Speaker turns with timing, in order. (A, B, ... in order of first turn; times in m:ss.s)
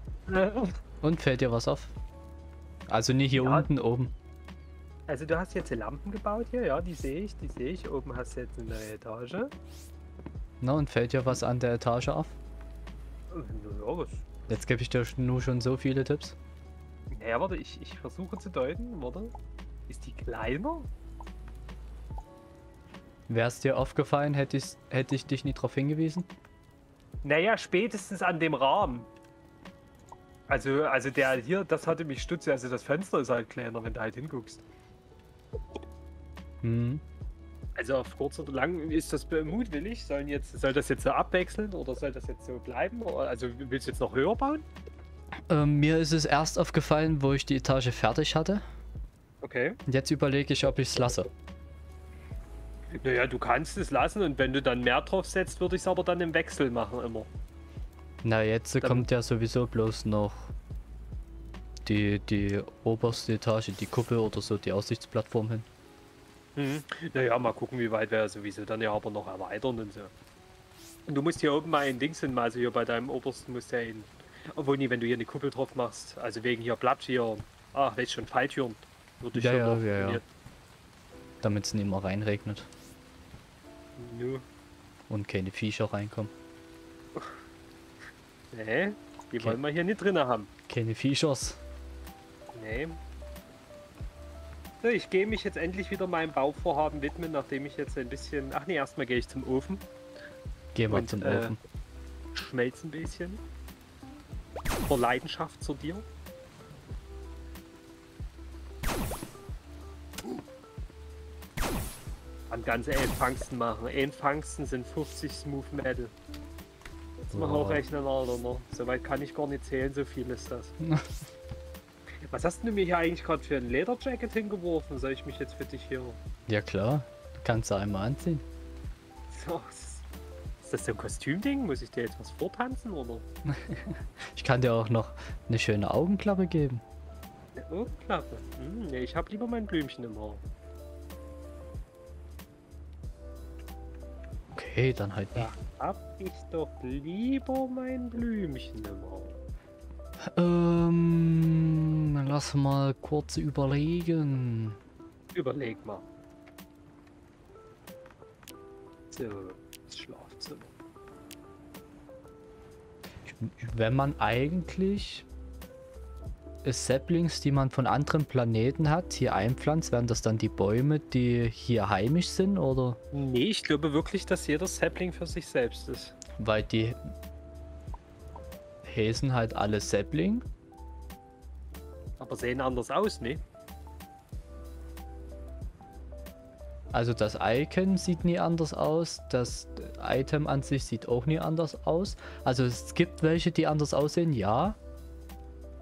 0:00.3-0:00.8 A
0:01.0-0:02.0 B
0:02.9-0:04.1 B
0:03.4-0:03.7 A
0:05.1-0:09.5 A
0:10.6-0:12.4 B
0:13.3-0:14.3 A
0:14.5-0:16.4 B
0:17.1-0:19.3 A
0:19.9-0:20.9 A
0:23.3-0:26.3 B
0:27.2-0:29.1 A
0:30.5-0:34.6 A
0:36.6-0:37.0 B
0:37.8-0:44.7 A
0:45.5-0:48.6 B
0:49.4-0:49.8 A
0:49.9-0:51.3 B
0:52.9-0:57.3 A
0:58.2-1:00.5 B
0:58.8-0:59.1 A
1:01.8-1:05.7 B
1:06.6-1:10.1 A
1:11.1-1:20.3 A
1:19.3-1:20.2 B
1:21.4-1:22.7 B
1:24.0-1:24.4 A
1:25.1-1:26.3 B
1:28.5-1:30.5 A
1:30.7-1:31.6 B
1:32.5-1:33.0 A
1:34.8-1:39.8 A
1:40.7-1:41.6 B
1:40.9-1:41.6 A
1:42.3-1:43.4 A
1:44.9-1:46.1 A
1:52.5-1:56.1 A
1:57.3-2:00.7 A
1:57.3-1:57.8 B
2:00.8-2:01.2 B
2:02.3-2:06.2 A
2:06.5-2:08.4 B
2:09.3-2:10.0 A
2:10.6-2:13.2 A
2:13.5-2:16.8 B
2:17.6-2:20.4 A
2:24.5-2:25.5 B
2:25.3-2:29.4 A
2:30.2-2:34.8 B
2:35.3-2:36.1 A
2:39.1-2:40.7 A
2:43.2-2:45.3 B
2:46.6-2:53.0 B
2:53.1-2:56.2 A
2:56.4-2:57.0 B
2:58.8-3:00.4 B
3:02.2-3:03.4 A
3:06.9-3:14.8 B